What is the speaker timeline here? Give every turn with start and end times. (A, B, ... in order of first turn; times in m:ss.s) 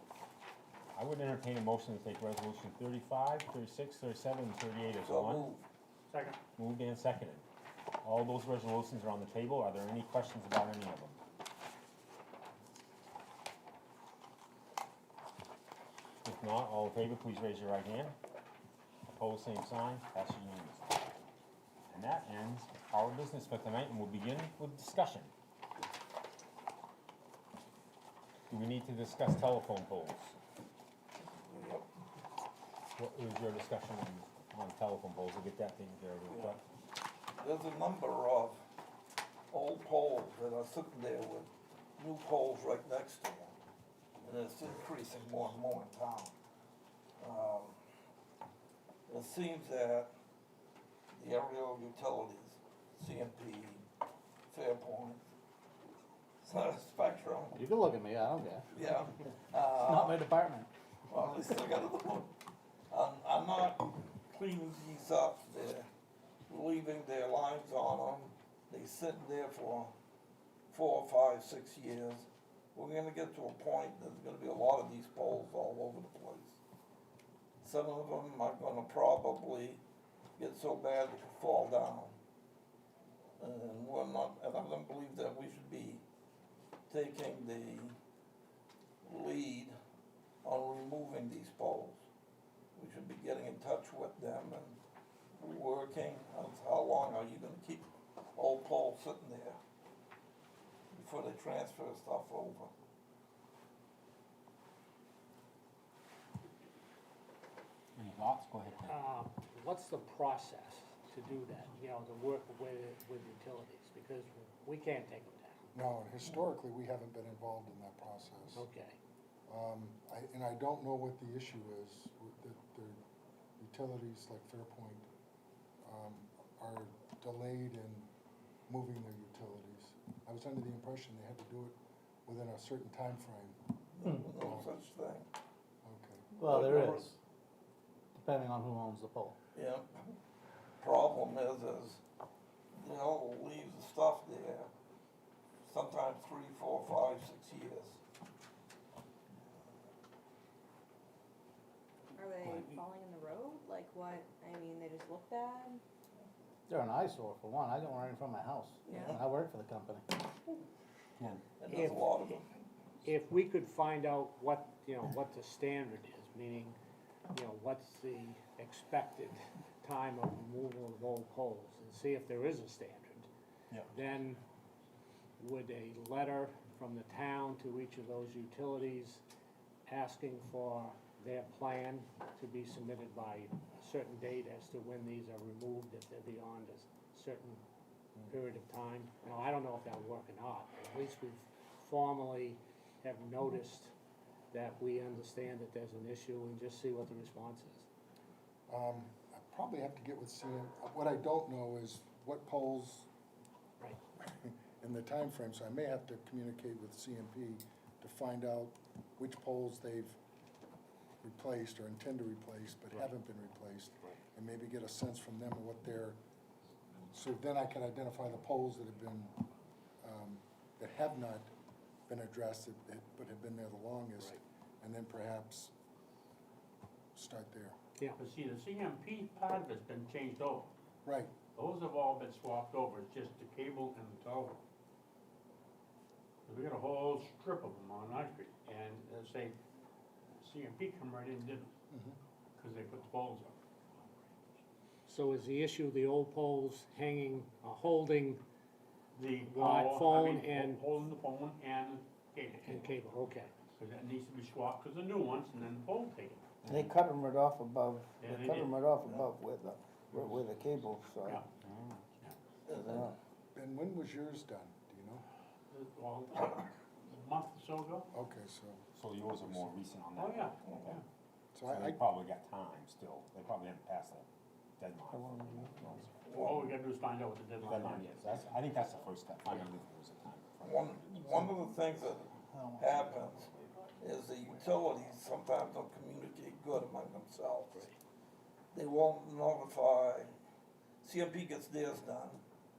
0:00.9-0:05.5 A
0:05.0-0:05.6 B
0:06.1-0:06.4 C
0:06.6-0:07.4 A
0:08.0-0:11.2 A
0:16.2-0:18.1 A
0:19.1-0:21.2 A
0:21.9-0:25.3 A
0:28.5-0:30.3 A
0:31.4-0:31.8 B
0:33.0-0:36.6 A
0:37.4-0:38.6 B
0:39.5-0:43.6 B
0:44.2-0:46.3 B
0:47.2-0:47.8 B
0:49.1-0:50.1 B
0:51.1-0:53.8 B
0:54.5-0:55.2 B
0:56.4-0:57.6 B
0:57.5-0:58.6 D
0:58.7-1:00.2 B
0:59.7-1:00.7 D
1:01.1-1:02.3 B
1:02.9-1:05.9 B
1:06.5-1:09.9 B
1:10.7-1:16.6 B
1:17.6-1:19.8 B
1:20.4-1:22.1 B
1:23.4-1:26.0 B
1:26.9-1:28.0 B
1:29.0-1:29.7 B
1:30.4-1:32.0 B
1:32.8-1:34.8 B
1:35.4-1:39.6 B
1:40.9-1:42.7 B
1:48.0-1:48.9 A
1:48.8-1:55.7 E
1:55.7-1:58.6 F
1:58.5-1:59.0 E
1:59.5-2:03.0 F
2:03.6-2:05.1 F
2:05.8-2:08.1 F
2:08.7-2:11.7 F
2:12.2-2:13.6 F
2:13.9-2:15.3 B
2:14.4-2:14.7 F
2:15.8-2:16.3 F
2:16.4-2:17.2 D
2:16.4-2:17.1 B
2:18.1-2:19.3 D
2:19.5-2:20.0 B
2:20.8-2:22.0 B
2:22.7-2:24.7 B
2:25.6-2:28.0 B
2:32.1-2:35.8 G
2:32.4-2:32.7 A
2:36.7-2:40.1 D
2:38.8-2:39.2 B
2:41.6-2:42.5 B
2:41.7-2:42.4 E
2:43.0-2:46.8 E
2:47.3-2:53.3 E
2:53.9-2:54.4 E
2:55.4-2:59.2 E
2:59.9-3:07.6 E
3:08.3-3:13.9 E
3:14.5-3:17.9 E
3:18.7-3:23.1 F
3:24.2-3:30.2 F
3:31.2-3:36.2 F
3:37.1-3:39.4 F
3:40.0-3:41.5 F
3:42.1-3:45.7 F
3:47.1-3:47.8 F
3:48.2-3:50.7 C
3:51.0-3:51.3 F
3:51.6-3:54.6 C
3:56.4-3:59.6 C
4:00.4-4:01.7 C
4:01.9-4:02.2 F
4:02.6-4:03.6 C
4:05.1-4:08.4 E
4:09.1-4:13.0 C
4:09.4-4:10.8 E
4:12.6-4:13.5 E
4:13.8-4:16.5 C
4:16.6-4:16.9 A
4:16.6-4:21.4 H
4:18.2-4:18.8 C
4:21.6-4:22.0 A
4:22.6-4:23.1 B
4:22.7-4:23.2 H
4:23.5-4:25.2 F
4:25.7-4:28.1 C
4:28.1-4:28.8 F
4:28.9-4:31.0 A
4:30.2-4:31.0 C
4:31.5-4:32.0 F
4:31.6-4:34.2 A
4:34.8-4:36.1 A
4:35.1-4:36.1 H
4:36.3-4:36.7 B
4:36.3-4:38.5 C
4:37.6-4:41.8 A
4:40.6-4:43.5 B
4:42.5-4:43.1 H
4:44.0-4:47.9 B
4:48.7-4:50.3 B
4:51.0-4:52.4 B